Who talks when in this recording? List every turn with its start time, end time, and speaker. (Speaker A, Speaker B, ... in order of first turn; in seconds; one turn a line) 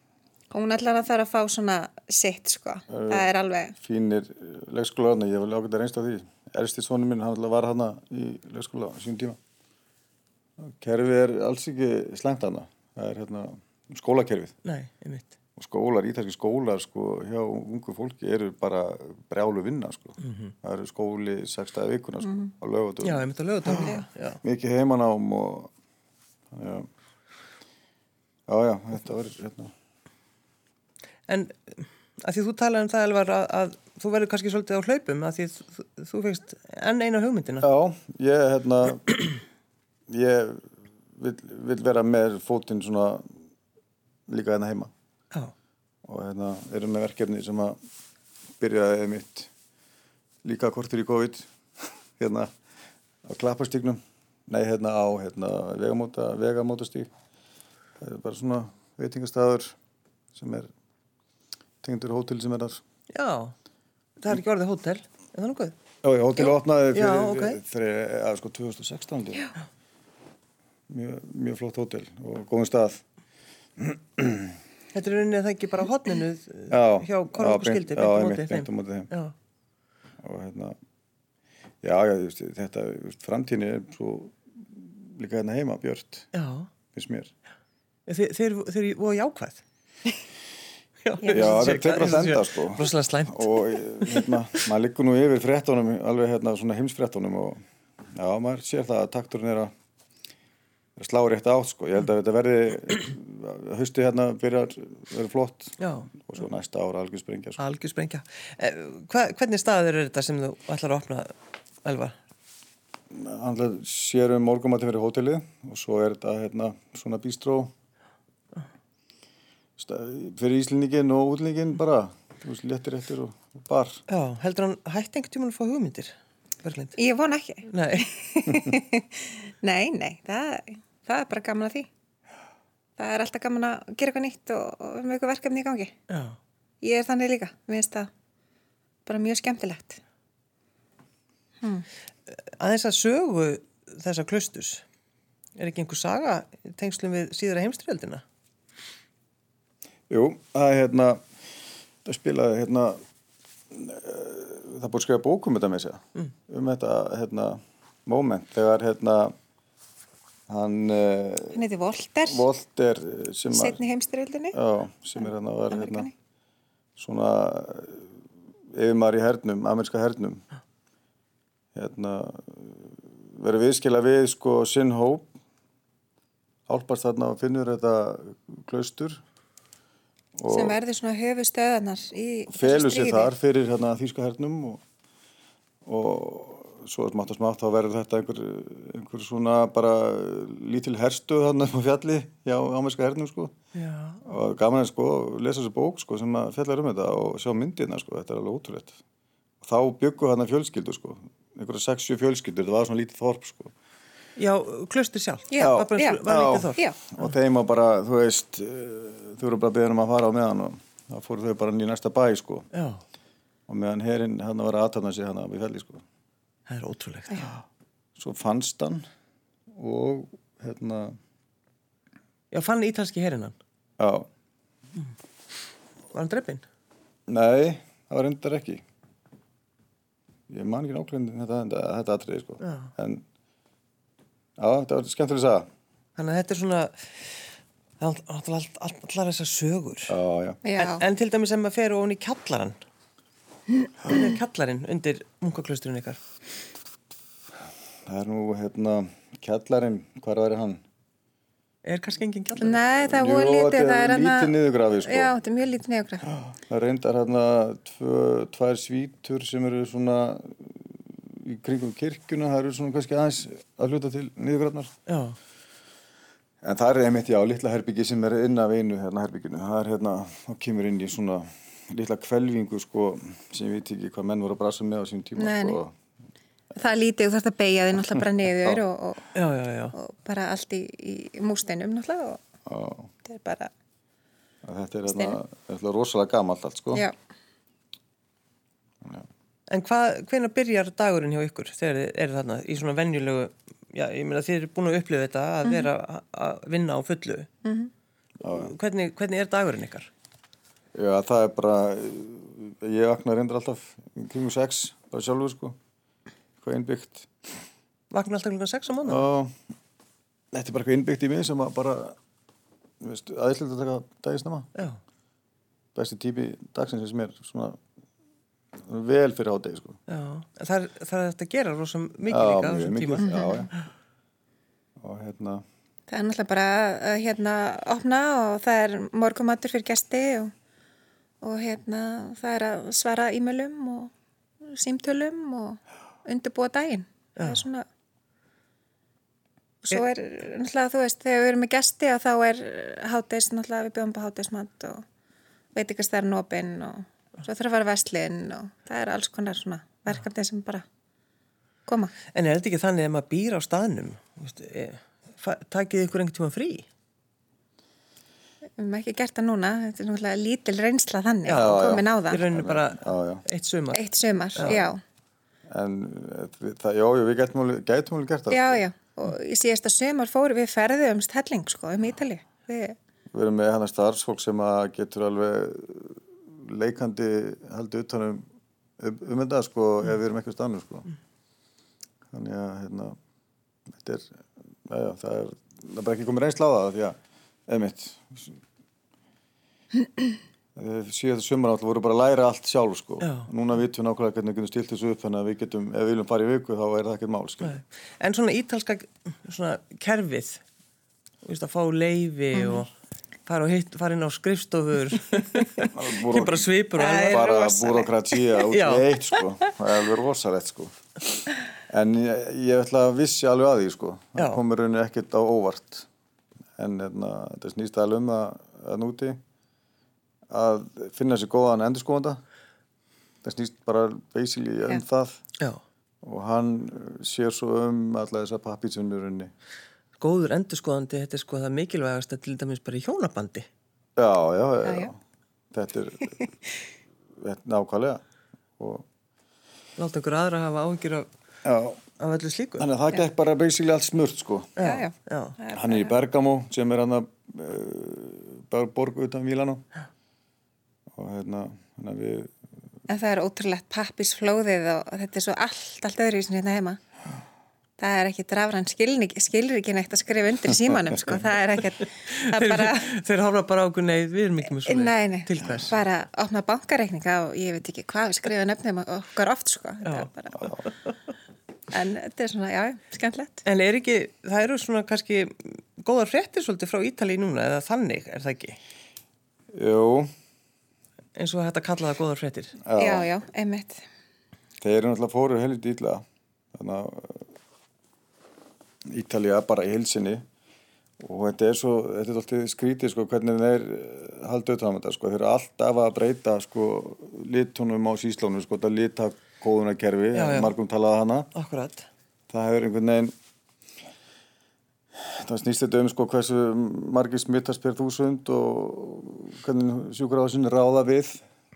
Speaker A: 0.5-3.7
Speaker B: 2.9-9.4
Speaker B: 10.6-14.5
Speaker C: 14.6-15.3
Speaker B: 15.6-25.7
Speaker C: 20.2-20.5
Speaker C: 23.0-24.4
Speaker A: 23.8-24.0
Speaker B: 26.5-26.9
Speaker B: 28.5-29.7
Speaker C: 31.3-37.7
Speaker B: 37.6-39.3
Speaker B: 40.1-43.3
Speaker B: 44.3-44.9
Speaker B: 46.0-47.8
Speaker B: 48.6-49.5
Speaker B: 50.4-51.5
Speaker B: 52.2-52.5
Speaker B: 53.2-57.1
Speaker B: 58.0-59.7
Speaker B: 60.3-60.7
Speaker B: 61.8-62.8
Speaker C: 63.1-63.5
Speaker C: 64.2-65.7
Speaker B: 66.0-69.5
Speaker C: 66.4-67.6
Speaker B: 70.9-73.0
Speaker B: 73.8-74.6
Speaker C: 74.9-79.3
Speaker B: 76.7-79.1
Speaker B: 80.2-80.8
Speaker B: 81.8-86.3
Speaker C: 86.3-86.7
Speaker B: 86.9-87.3
Speaker C: 88.1-89.6
Speaker C: 91.0-94.4
Speaker B: 91.3-97.6
Speaker B: 98.1-99.7
Speaker B: 101.0-107.6
Speaker C: 105.8-106.1
Speaker C: 107.6-112.2
Speaker B: 113.1-117.7
Speaker B: 119.8-124.0
Speaker C: 124.1-127.0
Speaker A: 127.0-131.9
Speaker C: 127.7-128.1
Speaker A: 133.0-135.9
Speaker C: 136.1-136.4
Speaker A: 136.8-138.1
Speaker A: 139.1-140.0
Speaker C: 142.3-144.8
Speaker C: 145.6-148.2
Speaker B: 150.1-151.2
Speaker B: 152.0-153.0
Speaker B: 153.7-159.3
Speaker B: 160.5-161.6
Speaker A: 161.5-162.4
Speaker B: 162.3-163.8
Speaker A: 163.5-164.6
Speaker B: 164.5-166.1
Speaker A: 165.7-166.1
Speaker B: 167.0-168.1
Speaker B: 168.7-170.4
Speaker B: 171.7-175.3
Speaker B: 176.7-179.2
Speaker B: 180.3-180.8
Speaker A: 180.5-183.3
Speaker B: 182.5-184.8
Speaker B: 185.8-193.5
Speaker C: 193.7-194.2
Speaker B: 194.2-199.0
Speaker B: 199.6-203.7
Speaker C: 204.4-207.3
Speaker A: 205.5-207.0
Speaker B: 205.6-212.7
Speaker C: 212.7-213.0
Speaker B: 213.7-216.0
Speaker C: 216.7-217.6
Speaker B: 218.2-219.1
Speaker B: 219.7-221.2
Speaker C: 222.5-223.6
Speaker B: 224.0-224.3
Speaker C: 226.1-226.6
Speaker B: 227.3-228.8
Speaker B: 230.5-233.2
Speaker C: 232.6-232.9
Speaker B: 234.6-235.7
Speaker C: 236.2-237.4
Speaker C: 238.0-240.2
Speaker B: 240.1-240.6
Speaker A: 240.6-241.0
Speaker C: 240.8-242.8
Speaker C: 244.1-246.2
Speaker B: 248.1-250.8
Speaker C: 251.8-252.8
Speaker A: 252.6-256.3
Speaker B: 252.9-255.3
Speaker B: 256.3-264.9
Speaker C: 265.1-265.4
Speaker B: 266.6-275.9
Speaker A: 275.4-275.8
Speaker A: 276.7-279.3
Speaker C: 279.3-279.9
Speaker A: 279.9-282.4
Speaker B: 282.6-283.1
Speaker A: 283.2-283.7
Speaker B: 284.6-287.0
Speaker A: 285.1-285.4
Speaker C: 289.7-297.5
Speaker A: 295.6-295.9
Speaker A: 297.6-297.9
Speaker B: 298.4-298.7
Speaker C: 298.4-300.1
Speaker B: 300.9-305.8
Speaker B: 306.6-307.3
Speaker C: 308.1-309.2
Speaker B: 309.0-309.6
Speaker B: 310.5-312.2
Speaker B: 313.0-314.7
Speaker B: 315.9-317.8
Speaker B: 318.8-320.0
Speaker C: 320.1-323.4
Speaker B: 322.3-323.7
Speaker A: 323.2-323.6
Speaker B: 325.0-325.6
Speaker A: 326.1-330.5
Speaker A: 331.4-334.1
Speaker A: 334.6-337.9
Speaker A: 339.8-345.0
Speaker A: 345.7-350.8
Speaker A: 351.9-352.1
Speaker C: 352.3-356.9
Speaker A: 358.8-362.4
Speaker C: 361.5-364.8
Speaker B: 361.5-363.4
Speaker A: 363.9-365.0
Speaker B: 365.7-368.8
Speaker A: 368.5-372.9
Speaker B: 373.3-378.4
Speaker B: 379.0-381.1
Speaker B: 382.3-383.1
Speaker B: 383.9-384.3
Speaker B: 384.9-388.6
Speaker B: 390.8-397.8
Speaker C: 393.2-393.5
Speaker C: 397.6-400.6
Speaker C: 401.4-402.9
Speaker A: 402.5-402.8
Speaker C: 403.4-407.7
Speaker B: 405.9-406.7
Speaker A: 407.0-408.4
Speaker B: 407.2-416.1
Speaker C: 408.7-409.1
Speaker B: 416.8-419.4
Speaker B: 420.5-422.4
Speaker B: 423.4-425.4
Speaker B: 426.2-429.5
Speaker C: 430.2-433.7
Speaker B: 434.1-435.2
Speaker A: 434.8-435.1
Speaker B: 435.7-436.5
Speaker B: 437.4-438.2
Speaker B: 438.8-439.1
Speaker C: 440.0-441.3
Speaker B: 441.6-442.0
Speaker C: 442.2-442.9
Speaker B: 442.8-444.9
Speaker C: 444.8-445.6
Speaker A: 444.8-446.1
Speaker B: 445.7-449.8
Speaker B: 451.1-452.5
Speaker A: 453.1-457.0
Speaker A: 458.0-463.1
Speaker C: 462.2-466.0
Speaker A: 464.8-470.8
Speaker C: 470.0-470.3
Speaker A: 471.9-473.6
Speaker C: 473.6-478.8
Speaker B: 479.7-480.3
Speaker C: 481.4-482.8
Speaker B: 482.8-483.3
Speaker A: 483.0-484.0
Speaker B: 484.8-487.5
Speaker B: 489.1-490.4
Speaker B: 491.2-501.5
Speaker C: 500.3-500.7
Speaker C: 501.5-502.1
Speaker B: 502.5-503.3
Speaker B: 505.1-511.4